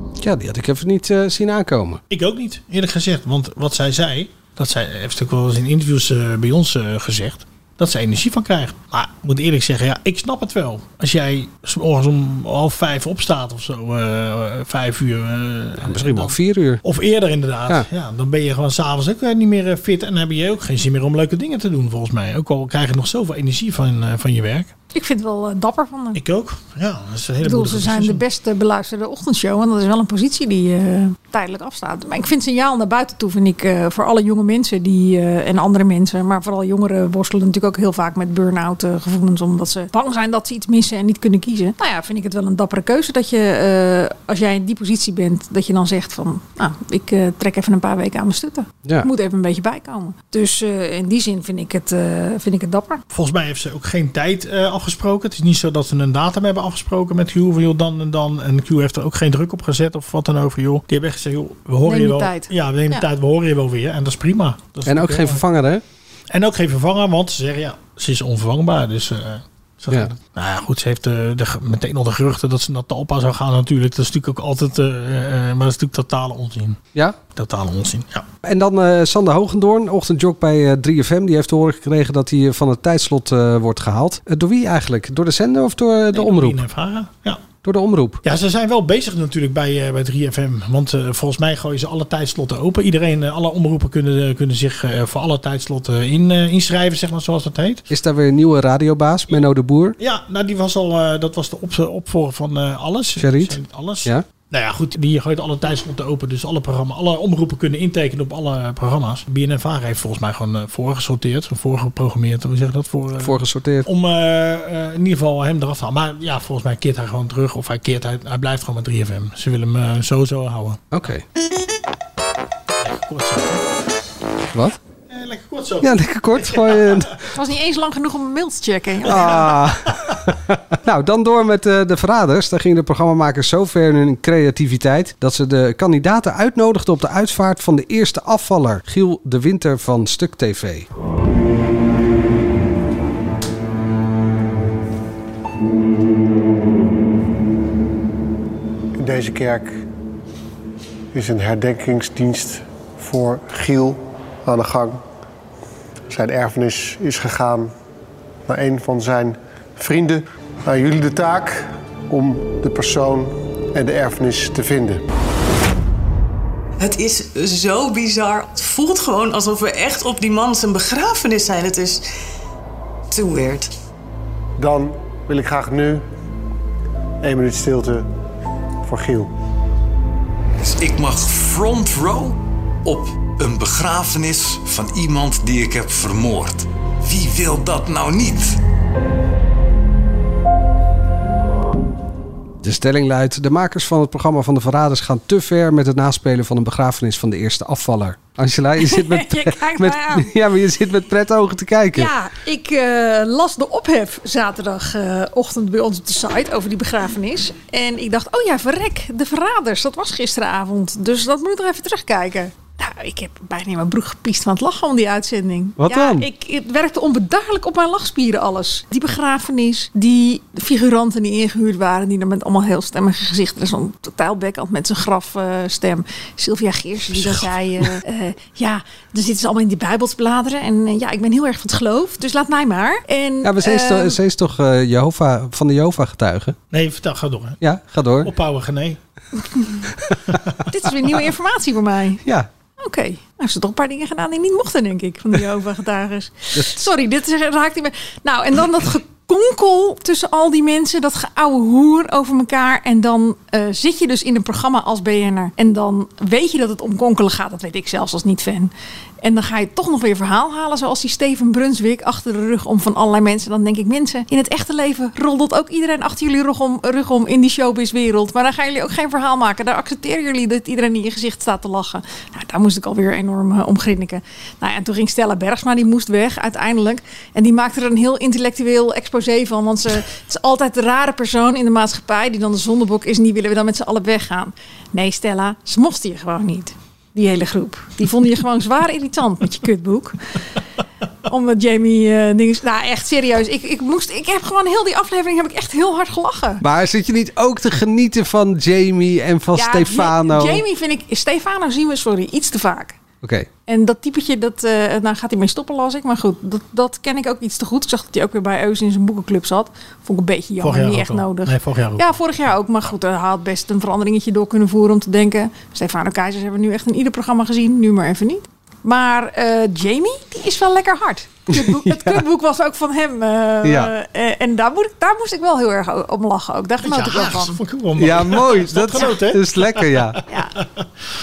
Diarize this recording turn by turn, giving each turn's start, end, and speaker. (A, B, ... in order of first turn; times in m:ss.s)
0:00.2-0:02.0 A
0:02.1-0:24.7 B
0:15.8-0:16.8 A
0:24.9-0:26.2 C
0:26.2-0:28.2 B
0:27.4-0:53.0 C
0:53.1-1:05.4 B
1:01.9-1:03.0 C
1:04.9-1:05.8 A
1:06.3-1:16.8 B
1:17.4-1:18.2 B
1:18.4-1:26.6 A
1:26.1-1:27.4 B
1:27.6-1:28.2 A
1:28.2-1:37.8 B
1:37.9-1:40.0 A
1:40.0-2:01.0 B
1:43.2-1:44.2 A
1:53.2-1:53.9 A
2:00.9-2:01.2 A
2:02.8-2:03.6 B
2:04.5-2:04.8 A
2:05.1-2:07.2 B
2:05.8-2:07.2 A
2:07.3-2:09.5 C
2:09.1-2:10.2 B
2:09.1-2:20.9 A
2:29.0-2:29.8 D
2:31.1-2:35.0 D
2:36.1-2:37.7 D
2:38.5-2:45.0 D
2:46.8-2:52.0 E
2:53.1-2:53.7 E
2:54.6-2:56.0 D
2:57.2-2:58.1 D
2:58.8-2:59.3 D
3:00.6-3:02.3 F
3:03.0-3:08.5 F
3:12.6-3:22.1 A
3:18.8-3:20.3 C
3:21.9-3:54.2 C
3:35.8-3:36.3 A
3:53.4-3:56.6 A
3:56.7-3:57.6 B
3:57.6-3:58.3 A
3:58.2-3:59.0 B
4:00.7-4:02.2 C
4:02.8-4:50.2 C
4:51.3-4:56.6 C
4:56.6-5:00.6 A
4:59.6-5:03.0 C
5:03.2-5:03.5 A
5:03.7-5:27.6 C
5:10.6-5:12.2 B
5:21.5-5:22.2 A
5:23.6-5:23.9 A
5:26.8-5:30.2 B
5:28.0-5:30.2 A
5:30.3-5:30.5 C